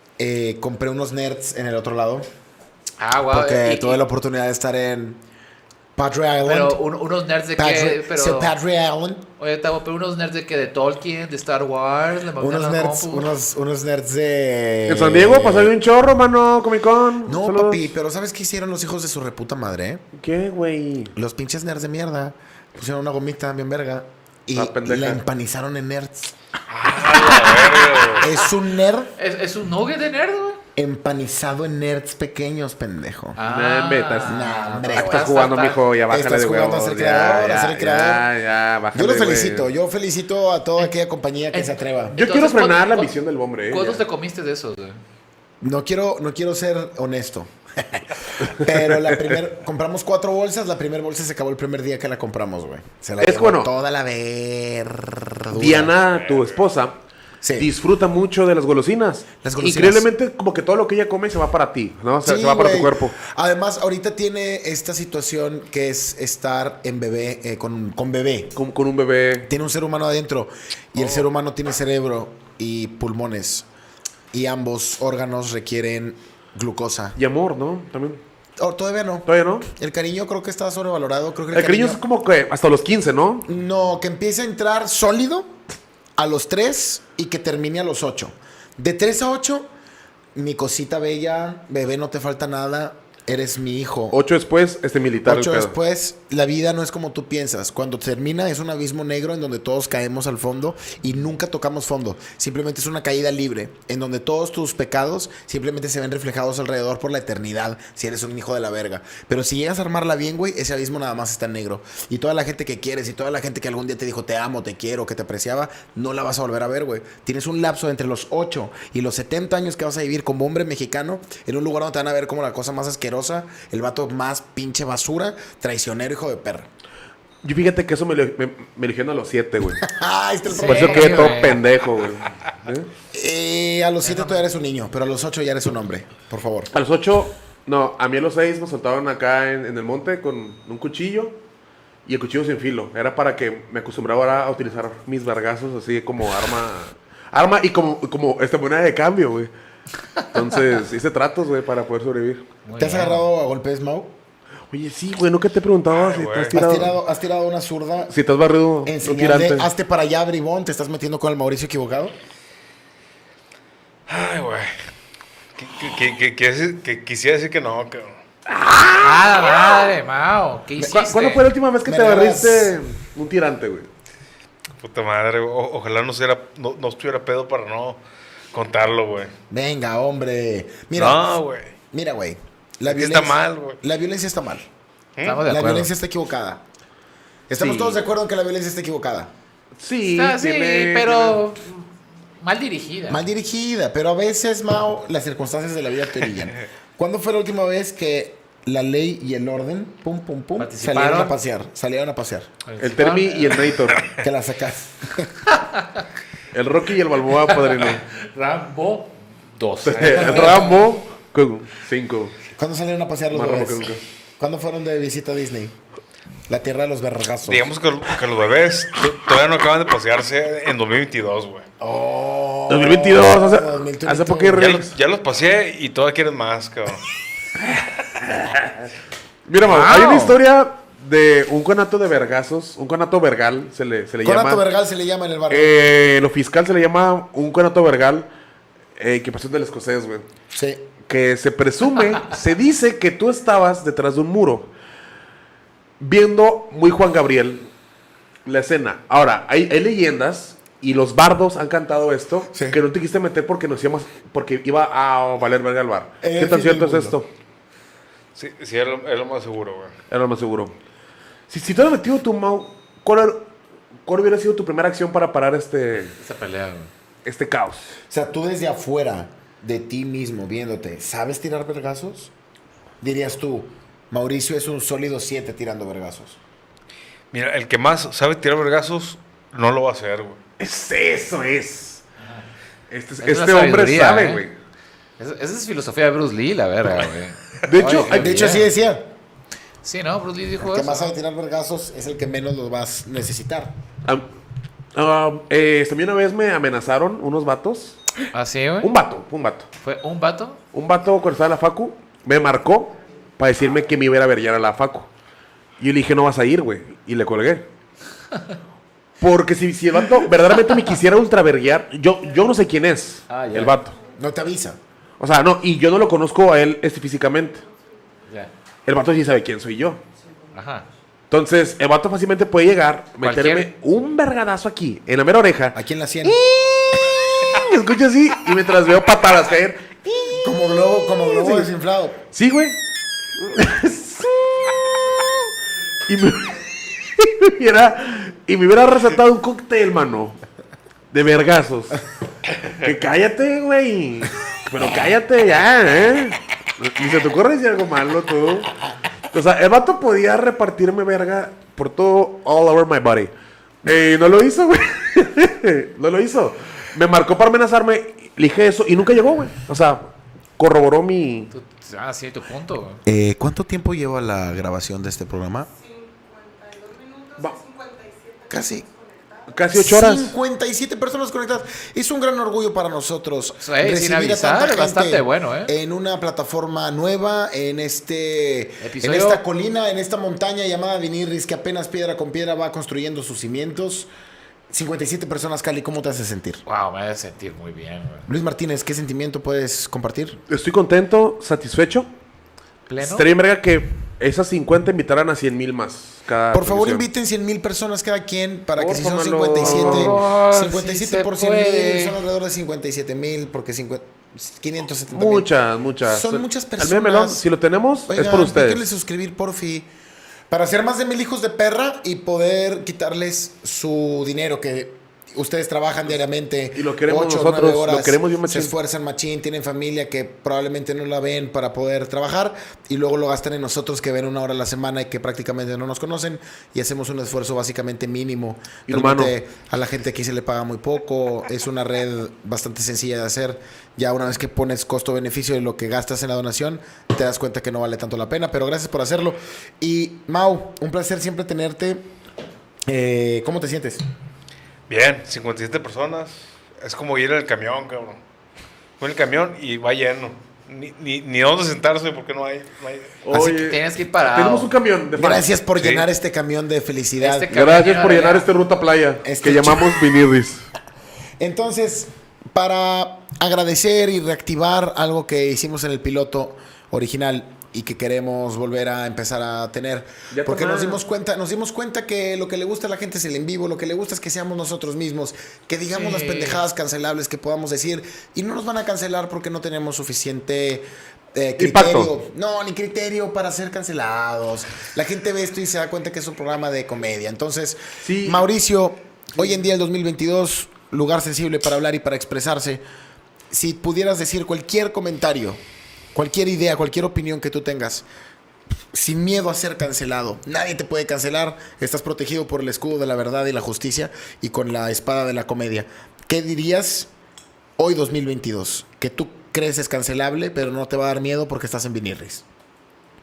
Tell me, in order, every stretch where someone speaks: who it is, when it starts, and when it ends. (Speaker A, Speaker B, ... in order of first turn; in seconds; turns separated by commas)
Speaker A: 0.2-2.3, Speaker B: 3.0-4.0, Speaker A: 3.3-5.2, Speaker A: 6.0-6.8, Speaker B: 6.4-8.5, Speaker A: 7.6-9.3, Speaker B: 9.4-13.3, Speaker A: 12.4-15.7, Speaker C: 14.9-17.9, Speaker A: 17.2-20.0, Speaker C: 20.1-21.1, Speaker A: 21.1-26.3, Speaker C: 24.5-25.2, Speaker D: 26.7-28.3, Speaker B: 27.1-28.1, Speaker A: 28.2-29.1, Speaker B: 29.2-30.6, Speaker A: 30.8-33.4, Speaker B: 33.4-35.8, Speaker C: 33.4-39.7, Speaker A: 34.2-35.3, Speaker A: 36.1-38.3, Speaker A: 38.9-42.1, Speaker B: 41.5-43.1, Speaker C: 42.1-44.0, Speaker B: 43.7-45.0, Speaker A: 45.6-56.0, Speaker C: 48.5-49.2, Speaker C: 53.2-53.7, Speaker C: 55.5-57.0, Speaker D: 56.1-56.6, Speaker A: 57.4-57.7, Speaker C: 57.6-63.2, Speaker A: 59.4-60.1, Speaker A: 62.2-68.5, Speaker C: 68.5-69.5, Speaker A: 69.5-73.7, Speaker A: 74.3-77.2, Speaker C: 77.2-78.2, Speaker A: 78.6-82.0, Speaker C: 79.3-79.7, Speaker C: 81.5-83.5, Speaker A: 83.5-85.5, Speaker A: 86.2-89.7, Speaker A: 90.3-94.2, Speaker C: 94.1-95.7, Speaker A: 95.2-126.7, Speaker C: 127.4-129.8, Speaker A: 129.8-131.4, Speaker B: 130.5-131.6, Speaker C: 130.6-132.9, Speaker A: 133.1-136.7, Speaker B: 134.0-134.4, Speaker C: 136.7-141.4, Speaker C: 142.1-149.5, Speaker C: 150.3-152.4, Speaker B: 152.7-153.2, Speaker A: 152.8-154.1, Speaker C: 154.7-157.0, Speaker D: 155.9-156.6, Speaker A: 156.5-158.1, Speaker C: 158.1-159.7, Speaker A: 158.8-162.2, Speaker D: 164.1-164.7, Speaker D: 165.6-168.2, Speaker C: 168.5-169.7, Speaker B: 169.0-171.4, Speaker C: 170.9-173.9, Speaker A: 171.8-172.8, Speaker D: 174.8-178.0, Speaker D: 178.5-179.3, Speaker A: 179.5-181.4, Speaker D: 180.9-181.7, Speaker A: 181.9-184.7, Speaker D: 182.9-183.8, Speaker D: 185.2-185.4, Speaker B: 185.2-185.9, Speaker A: 185.4-186.6, Speaker A: 187.5-189.3, Speaker C: 187.6-188.0, Speaker C: 189.8-191.5, Speaker B: 190.1-191.8, Speaker B: 192.4-193.2, Speaker A: 193.1-202.5, Speaker B: 200.6-201.3, Speaker B: 202.7-203.8, Speaker C: 202.8-204.1, Speaker A: 204.1-205.3, Speaker C: 206.5-208.1, Speaker B: 207.5-210.9, Speaker C: 209.9-212.4, Speaker A: 210.0-210.8, Speaker A: 212.6-215.8, Speaker C: 213.3-214.0, Speaker A: 216.5-217.7, Speaker D: 217.5-221.7, Speaker A: 221.8-224.7, Speaker C: 222.7-224.9, Speaker D: 224.6-227.0, Speaker C: 228.1-228.8, Speaker C: 229.5-234.6, Speaker B: 229.6-230.4, Speaker A: 234.2-235.7, Speaker C: 235.5-238.3, Speaker C: 239.0-240.2, Speaker A: 240.5-240.9, Speaker C: 241.1-244.7, Speaker C: 246.0-247.7, Speaker C: 248.4-257.3, Speaker A: 252.5-252.8, Speaker A: 256.2-257.1, Speaker D: 258.3-259.9, Speaker C: 260.1-260.8, Speaker C: 261.5-263.5, Speaker C: 264.1-266.1, Speaker B: 266.2-266.9, Speaker C: 267.2-267.9, Speaker A: 268.1-272.3, Speaker A: 273.0-276.4, Speaker D: 277.3-280.4, Speaker C: 280.6-282.0, Speaker B: 282.2-282.4, Speaker C: 282.9-284.5, Speaker B: 283.2-284.4, Speaker B: 285.2-288.7, Speaker C: 287.6-288.6, Speaker A: 288.1-289.1, Speaker B: 289.8-291.1, Speaker A: 290.6-293.7, Speaker C: 294.9-298.1, Speaker B: 298.3-298.9, Speaker C: 298.8-299.7, Speaker B: 299.8-300.6, Speaker C: 300.7-305.1, Speaker C: 305.8-307.6, Speaker C: 309.2-313.9, Speaker B: 313.3-313.8, Speaker A: 314.2-314.8, Speaker C: 315.2-317.6, Speaker C: 318.9-320.0, Speaker B: 320.5-320.9, Speaker C: 321.3-330.4, Speaker B: 323.2-323.7, Speaker A: 325.7-326.4, Speaker A: 330.3-332.2, Speaker C: 331.1-331.7, Speaker C: 332.3-332.8, Speaker C: 333.4-335.5, Speaker C: 336.1-340.4, Speaker C: 341.1-342.0, Speaker C: 342.6-348.7, Speaker C: 349.3-353.3, Speaker C: 353.8-360.0, Speaker C: 360.6-361.5, Speaker B: 361.5-363.0, Speaker A: 363.1-365.7, Speaker E: 365.7-369.6, Speaker A: 368.5-368.8, Speaker C: 369.5-370.4, Speaker A: 369.7-384.1, Speaker B: 373.6-375.7, Speaker B: 378.8-379.4, Speaker A: 384.7-386.6, Speaker B: 386.6-388.3, Speaker A: 388.3-390.4, Speaker C: 390.5-392.1, Speaker B: 392.9-393.3, Speaker C: 393.0-397.1, Speaker A: 396.5-405.5, Speaker C: 398.8-400.2, Speaker B: 399.6-402.2, Speaker C: 405.1-408.8, Speaker A: 406.0-407.4, Speaker A: 408.1-409.9, Speaker A: 410.5-442.1, Speaker C: 416.7-418.7, Speaker C: 428.9-429.3, Speaker A: 442.9-444.0, Speaker D: 444.9-448.2, Speaker D: 449.0-453.2, Speaker C: 453.2-455.5, Speaker B: 453.3-454.7, Speaker A: 455.1-457.6, Speaker D: 455.8-456.1, Speaker B: 457.2-458.5, Speaker C: 457.5-460.7, Speaker A: 459.2-460.1, Speaker A: 461.4-492.8, Speaker C: 470.3-471.0, Speaker B: 475.9-476.6, Speaker C: 481.6-482.1, Speaker C: 488.0-488.4, Speaker A: 493.5-495.6, Speaker A: 496.1-498.1, Speaker A: 498.9-507.1, Speaker A: 507.8-512.4